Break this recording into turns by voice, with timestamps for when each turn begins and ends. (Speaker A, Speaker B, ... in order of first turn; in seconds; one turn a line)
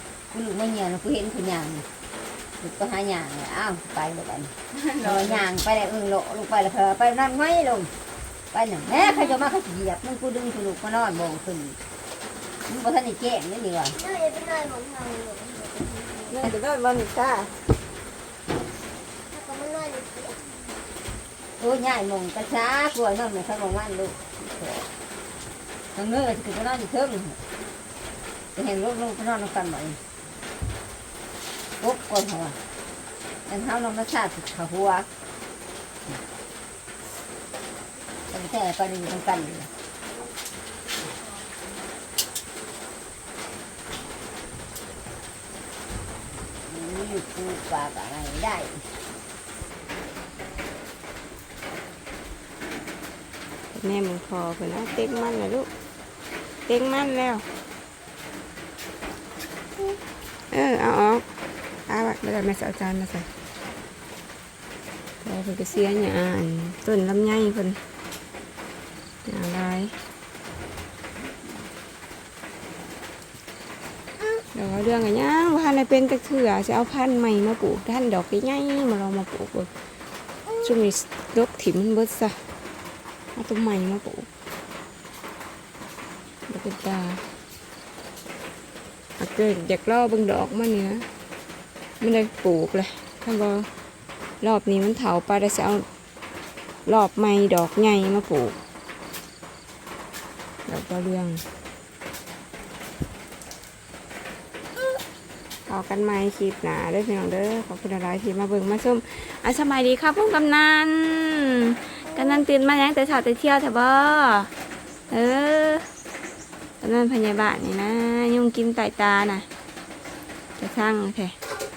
Speaker A: 0.3-1.9
Speaker A: 2.6-7.9
Speaker B: 4.7-5.4
Speaker A: 8.5-11.8
Speaker A: 12.7-13.9
Speaker C: 13.9-16.4
Speaker B: 16.3-17.5
Speaker C: 19.3-20.5
Speaker A: 21.6-24.9
Speaker A: 26.0-27.4
Speaker A: 28.6-30.0
Speaker A: 31.8-32.6
Speaker A: 33.5-35.1
Speaker A: 38.3-39.7
Speaker A: 46.6-48.9
Speaker B: 53.7-55.7
Speaker B: 56.7-57.5
Speaker B: 60.5-61.2
Speaker B: 61.9-63.3
Speaker B: 65.2-67.8
Speaker B: 69.2-70.0
Speaker B: 74.5-79.7
Speaker B: 80.6-82.4
Speaker B: 83.3-84.3
Speaker B: 86.5-87.2
Speaker B: 89.2-91.1
Speaker B: 92.0-93.7
Speaker B: 94.4-95.9
Speaker B: 96.8-98.6
Speaker B: 100.7-101.4
Speaker B: 105.7-114.5
Speaker B: 115.1-115.8
Speaker B: 116.8-119.5
Speaker B: 120.6-121.3